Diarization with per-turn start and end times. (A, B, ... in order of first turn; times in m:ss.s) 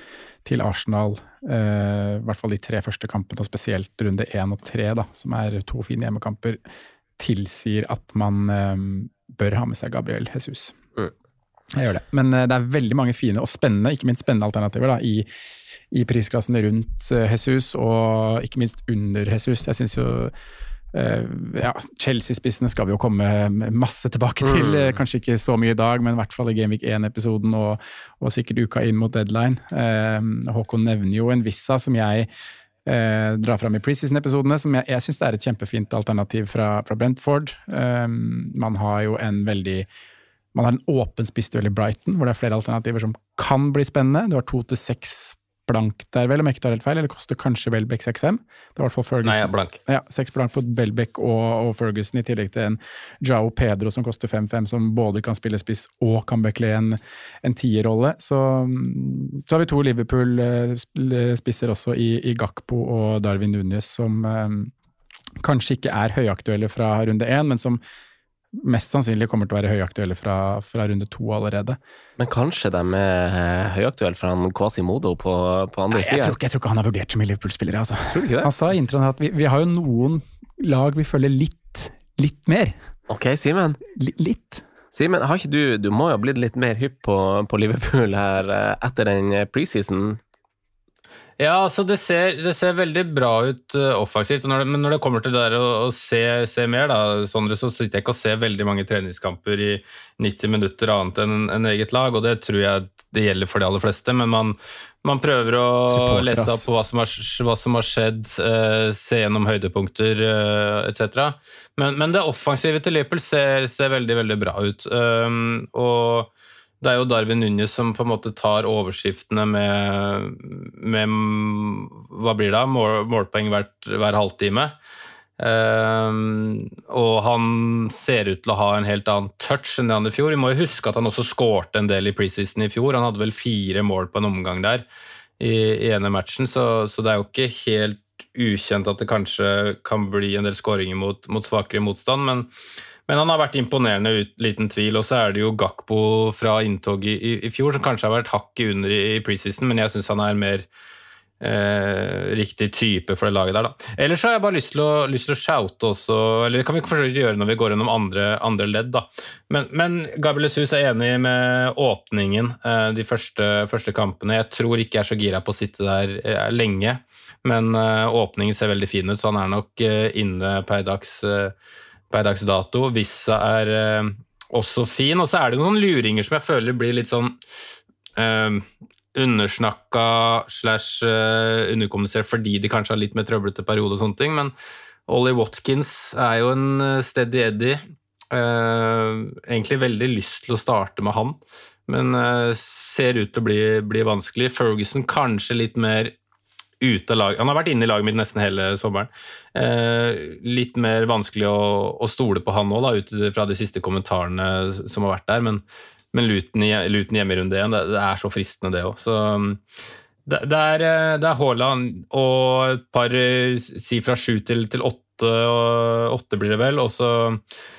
0:00.4-0:06.6 A
0:07.2-0:10.8 A
0:11.7-0:15.3 A
0:15.9-0:20.3 A
0:20.9-0:32.3 A
0:24.4-0:25.0 B
0:32.8-0:39.9 A
0:40.5-1:04.7 A
0:49.2-0:49.8 C
1:05.4-1:07.8 A
1:08.5-1:11.8 A
1:12.2-1:16.4 B
1:15.9-1:22.8 A
1:18.1-1:18.5 B
1:23.1-1:23.8 B
1:24.0-1:24.6 A
1:24.9-1:30.2 B
1:31.4-1:56.3 C
1:45.9-1:46.7 A
1:56.8-2:04.7 C
2:05.4-2:14.8 C
2:15.4-2:22.5 C
2:23.1-2:30.6 C
2:31.4-2:51.5 C
2:52.1-2:57.4 C
2:58.2-3:04.5 C
3:05.1-3:16.1 C
3:16.8-3:29.6 C
3:30.3-3:37.4 C